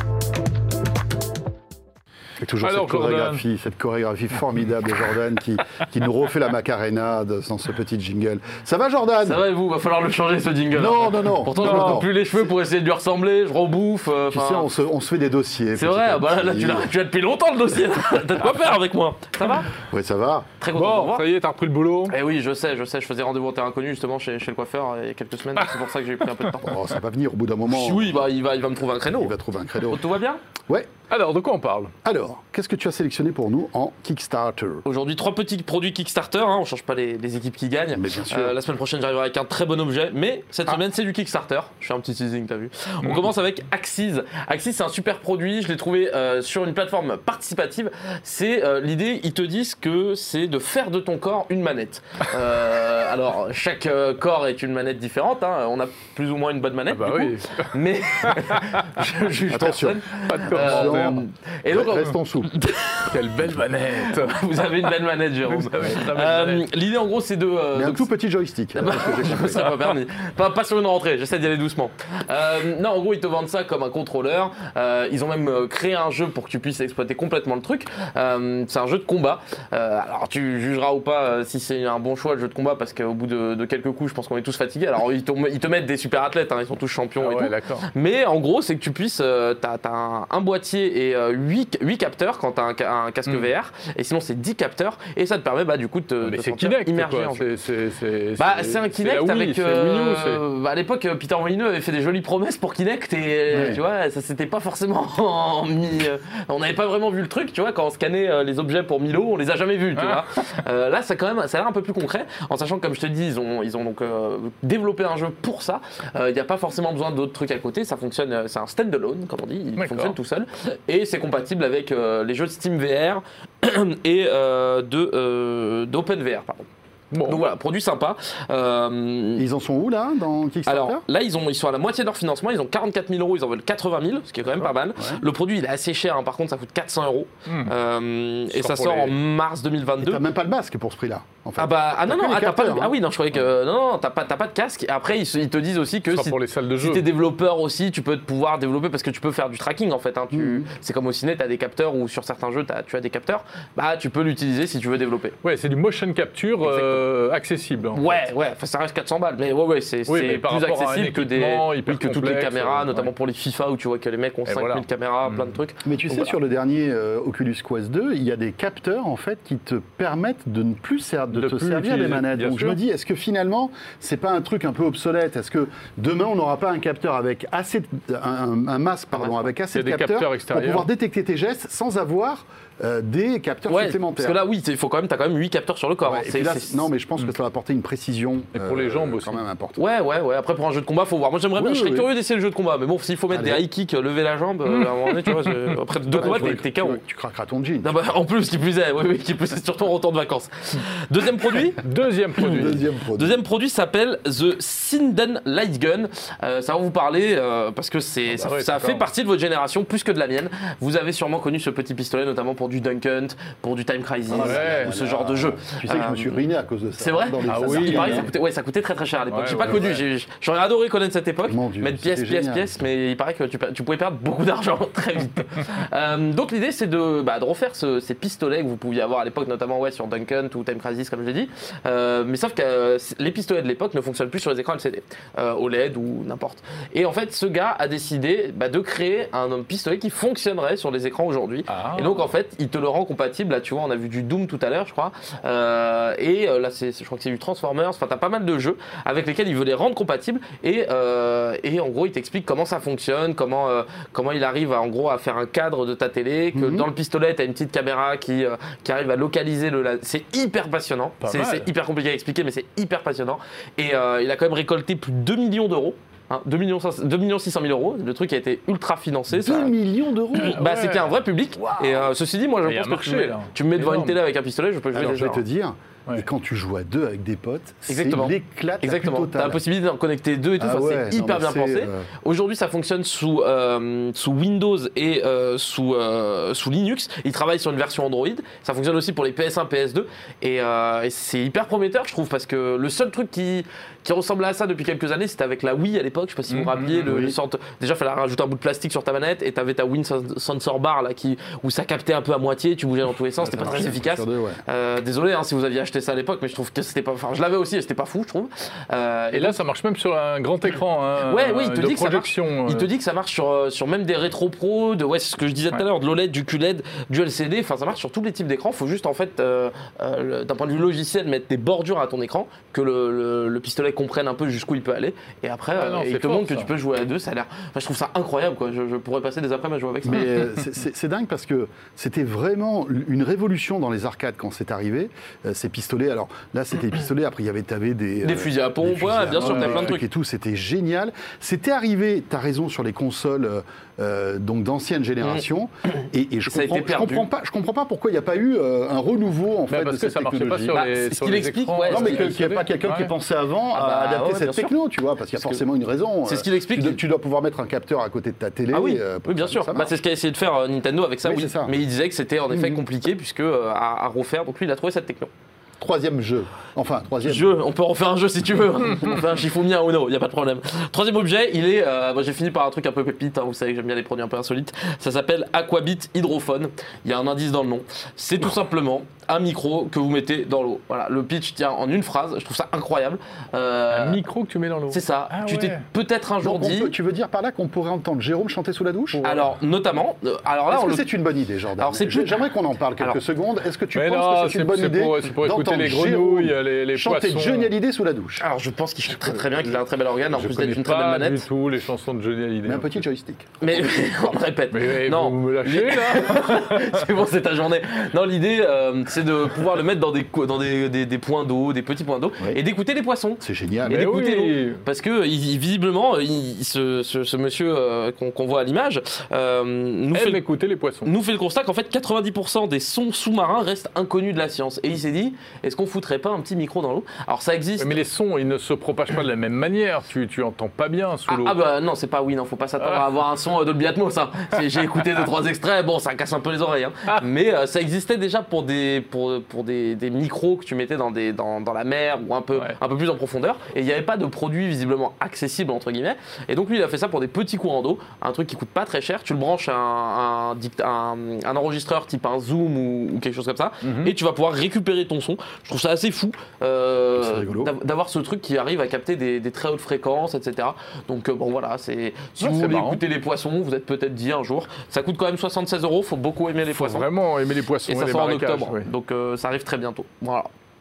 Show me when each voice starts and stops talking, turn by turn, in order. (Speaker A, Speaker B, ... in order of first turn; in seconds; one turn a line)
Speaker A: 2.4-9.4
Speaker B: 2.6-3.4
Speaker C: 9.2-14.7
Speaker A: 10.7-12.1
Speaker B: 11.6-12.0
Speaker A: 14.3-16.9
Speaker C: 15.7-19.7
Speaker A: 19.9-20.5
Speaker C: 20.6-21.2
Speaker B: 20.7-22.2
Speaker C: 22.1-26.6
Speaker B: 25.6-26.7
Speaker A: 26.5-28.2
Speaker C: 27.7-30.4
Speaker A: 29.2-30.0
Speaker B: 31.1-31.9
Speaker A: 32.0-34.8
Speaker C: 34.8-68.1
Speaker A: 37.9-38.5
Speaker B: 43.0-43.3
Speaker B: 56.9-59.0
Speaker A: 59.5-60.0
Speaker B: 60.2-61.2
Speaker A: 60.5-62.5
Speaker B: 63.1-64.9
Speaker B: 65.4-66.7
Speaker A: 67.7-69.6
Speaker C: 68.7-97.4
Speaker B: 69.5-69.9
Speaker B: 87.2-87.9
Speaker B: 96.2-100.4
Speaker C: 98.4-126.6
Speaker A: 103.5-103.8
Speaker B: 109.9-110.2
Speaker B: 119.8-120.2
Speaker B: 127.1-127.4
Speaker C: 127.3-129.4
Speaker A: 129.4-131.0
Speaker C: 130.7-140.2
Speaker B: 137.5-137.7
Speaker B: 138.5-139.1
Speaker A: 140.0-142.9
Speaker C: 141.6-155.4
Speaker B: 146.1-147.0
Speaker A: 150.3-150.7
Speaker B: 155.4-158.2
Speaker C: 156.6-157.1
Speaker C: 157.9-166.3
Speaker B: 160.1-163.1
Speaker B: 164.5-165.6
Speaker A: 165.8-184.4
Speaker B: 171.3-172.8
Speaker C: 179.1-179.5
Speaker B: 179.7-180.9
Speaker C: 183.7-186.9
Speaker A: 186.0-189.8
Speaker B: 188.5-189.4
Speaker C: 189.8-197.0
Speaker A: 191.6-192.1
Speaker A: 193.3-193.6
Speaker B: 194.7-196.6
Speaker A: 196.1-197.9
Speaker C: 197.8-201.8
Speaker B: 201.8-202.8
Speaker A: 202.4-203.4
Speaker C: 202.4-216.4
Speaker B: 208.3-209.1
Speaker A: 214.3-218.3
Speaker B: 214.3-215.0
Speaker C: 217.0-269.7
Speaker B: 217.5-218.3
Speaker B: 219.3-220.0
Speaker A: 219.6-220.0
Speaker A: 221.4-222.7
Speaker B: 241.7-242.3
Speaker A: 256.5-256.9
Speaker B: 261.2-261.7
Speaker A: 269.3-270.6
Speaker C: 270.3-275.4
Speaker B: 270.3-271.2
Speaker A: 271.6-272.1
Speaker B: 272.6-274.2
Speaker A: 274.9-279.6
Speaker C: 277.9-309.6
Speaker A: 280.6-282.1
Speaker B: 296.5-297.2
Speaker A: 297.1-297.3
Speaker A: 303.4-304.6
Speaker B: 309.3-312.9
Speaker C: 311.2-330.4
Speaker B: 325.7-326.7
Speaker A: 330.0-350.7
Speaker C: 338.2-340.0
Speaker B: 339.2-340.0
Speaker C: 345.9-347.3
Speaker B: 349.7-353.1
Speaker C: 350.7-352.4
Speaker A: 351.9-359.9
Speaker C: 353.7-354.7
Speaker C: 356.2-357.0
Speaker C: 358.7-365.3
Speaker A: 361.2-361.7
Speaker A: 362.5-362.8
Speaker A: 365.8-367.6
Speaker C: 367.2-384.2
Speaker B: 383.9-385.8
Speaker C: 384.9-386.9
Speaker A: 386.4-389.2
Speaker B: 389.1-389.6
Speaker C: 389.2-391.0
Speaker A: 390.7-398.4
Speaker C: 391.8-392.4
Speaker B: 393.9-397.7
Speaker C: 398.4-401.4
Speaker B: 399.0-403.0
Speaker A: 402.6-404.0
Speaker C: 403.6-420.4
Speaker B: 404.7-407.1
Speaker A: 413.4-414.0
Speaker B: 413.9-414.8
Speaker B: 420.1-421.1
Speaker C: 421.0-427.9
Speaker B: 427.8-431.6
Speaker C: 431.3-467.1
Speaker B: 432.8-433.1
Speaker B: 434.5-435.3
Speaker B: 453.8-454.1
Speaker A: 457.1-457.7
Speaker B: 462.4-463.0
Speaker B: 466.7-468.9
Speaker C: 467.9-470.5